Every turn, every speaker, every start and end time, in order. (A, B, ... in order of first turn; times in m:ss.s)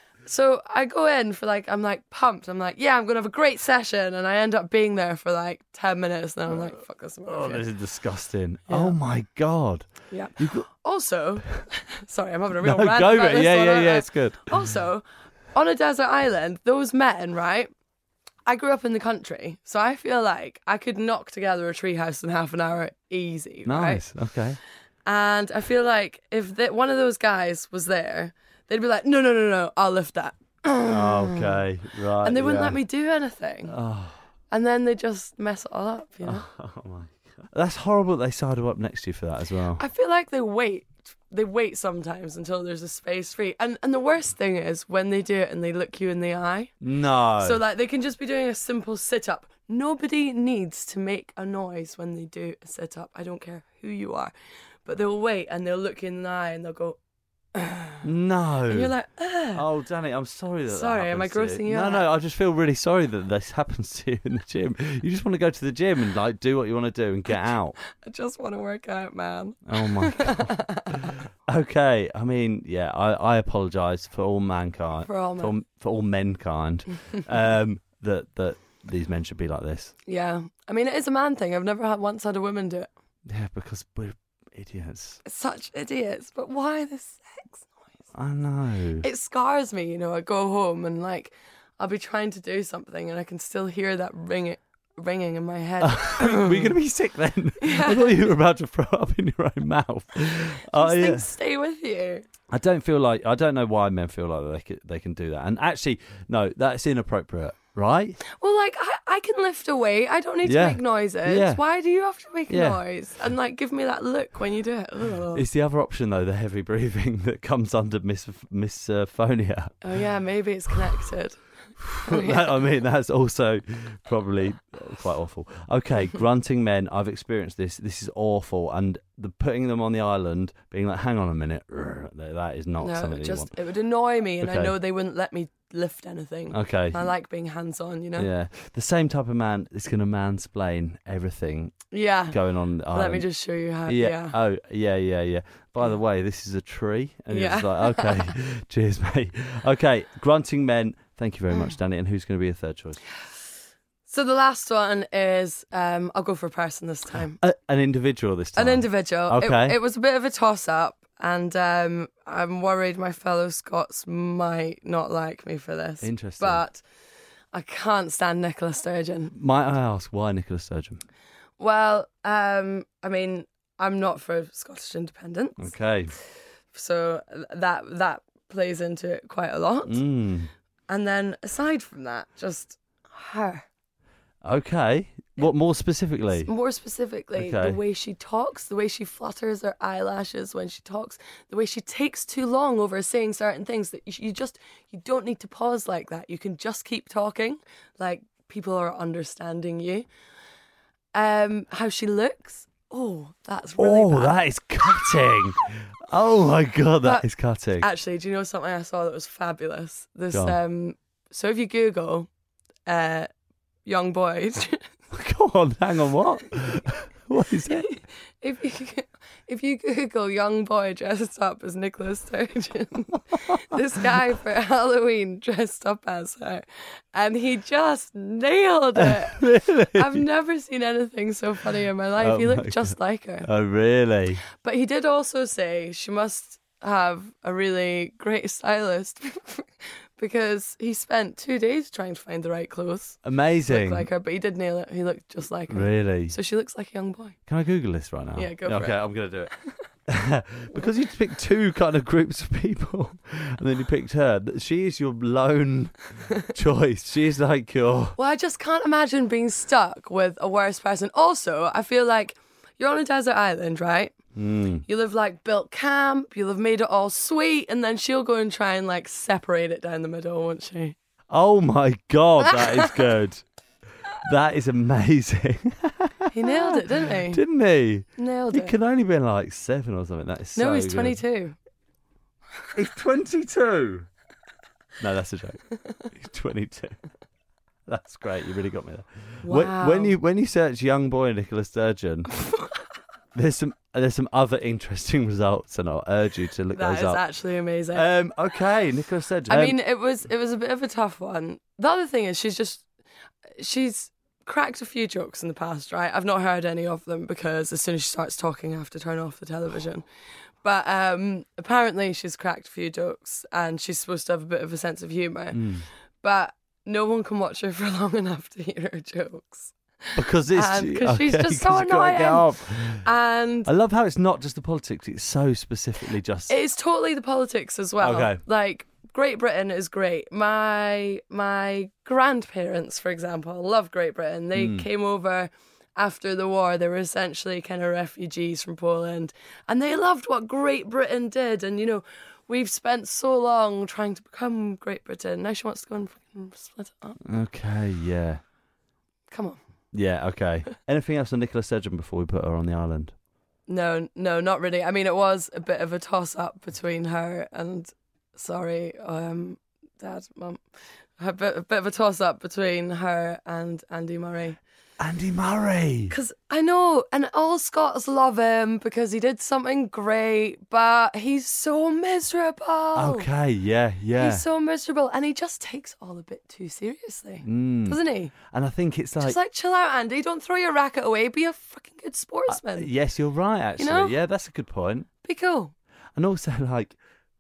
0:00.2-0:07.7 A
0:07.3-0:10.7 B
0:08.7-0:09.0 A
0:10.1-0:17.7 A
0:12.6-0:14.6 B
0:18.5-0:24.0 A
0:23.7-0:24.6 B
0:25.0-0:31.6 A
0:30.9-0:32.8 B
0:32.2-0:33.8 A
0:33.7-0:34.2 B
0:34.5-0:36.5 A
0:36.2-0:39.8 B
0:39.8-0:46.7 A
0:46.8-0:47.6 B
0:47.4-0:54.3 A
0:54.8-0:57.0 A
0:57.6-0:58.0 A
0:58.0-0:58.9 B
0:58.7-0:59.6 A
0:59.6-1:07.8 B
1:00.7-1:02.0 A
1:07.9-1:11.2 A
1:09.7-1:11.0 B
1:11.5-1:19.9 B
1:15.0-1:15.5 A
1:20.1-1:22.9 A
1:23.3-1:25.2 B
1:25.2-1:27.8 A
1:28.1-1:29.1 B
1:29.0-1:36.8 A
1:35.8-1:41.3 B
1:37.6-1:38.2 A
1:40.7-1:42.2 A
1:42.5-1:48.2 B
1:48.2-1:55.5 A
1:50.4-1:51.6 B
1:52.5-1:52.8 B
1:55.3-1:59.9 B
1:59.8-2:01.4 A
2:01.8-2:13.5 B
2:02.0-2:02.5 A
2:12.8-2:18.3 A
2:14.4-2:14.8 B
2:16.5-2:17.1 B
2:18.2-2:21.8 B
2:21.9-2:22.4 A
2:22.3-2:23.3 B
2:22.9-2:24.4 A
2:23.9-2:33.0 B
2:27.3-2:28.4 A
2:34.1-2:37.4 A
2:37.4-2:39.8 B
2:38.6-2:46.8 A
2:46.0-2:46.6 B
2:47.5-2:49.4 A
2:49.3-2:51.0 B
2:51.6-2:55.7 A
2:55.6-2:56.1 B
2:56.7-3:00.0 A
2:59.9-3:00.5 B
3:00.9-3:03.7 A
3:04.4-3:06.5 B
3:06.4-3:20.1 A
3:07.4-3:07.8 B
3:21.1-3:24.4 A
3:23.8-3:27.9 B
3:27.8-3:32.3 A
3:30.3-3:30.6 B
3:32.9-3:33.3 A
3:33.8-3:34.9 A
3:35.1-3:37.9 B
3:37.7-3:53.5 A
3:49.0-3:50.2 B
3:52.2-3:54.4 B
3:54.6-4:07.4 A
4:03.2-4:04.1 B
4:05.7-4:06.4 B
4:07.5-4:09.5 B
4:08.4-4:09.8 A
4:10.1-4:18.2 B
4:18.2-4:24.2 A
4:24.4-4:24.8 B
4:24.9-4:31.0 A
4:31.3-4:33.4 B
4:32.6-4:32.9 A
4:34.2-4:41.2 B
4:36.3-4:37.4 A
4:38.2-4:38.8 A
4:40.6-4:41.6 A
4:42.8-4:44.1 B
4:45.0-4:47.0 B
4:47.9-4:52.3 B
4:49.4-4:50.2 A
4:53.3-4:57.2 B
4:56.7-4:58.1 A
4:57.9-4:59.8 B
4:59.5-5:02.8 A
5:03.6-5:10.0 A
5:10.6-5:23.7 A
5:15.5-5:15.8 B
5:20.2-5:23.1 B
5:23.7-5:26.5 B
5:26.5-5:47.2 A
5:28.0-5:28.4 B
5:34.6-5:34.9 B
5:47.2-5:48.4 B
5:49.3-5:49.6 A
5:49.9-5:53.2 B
5:53.7-6:00.6 A
6:01.2-6:04.6 A
6:05.0-6:06.1 B
6:06.1-6:13.3 A
6:13.0-6:14.4 B
6:14.2-6:18.3 A
6:17.4-6:19.4 B
6:19.2-6:22.9 A
6:22.5-6:25.1 B
6:23.8-6:24.2 A
6:25.2-6:25.7 A
6:26.2-6:27.0 B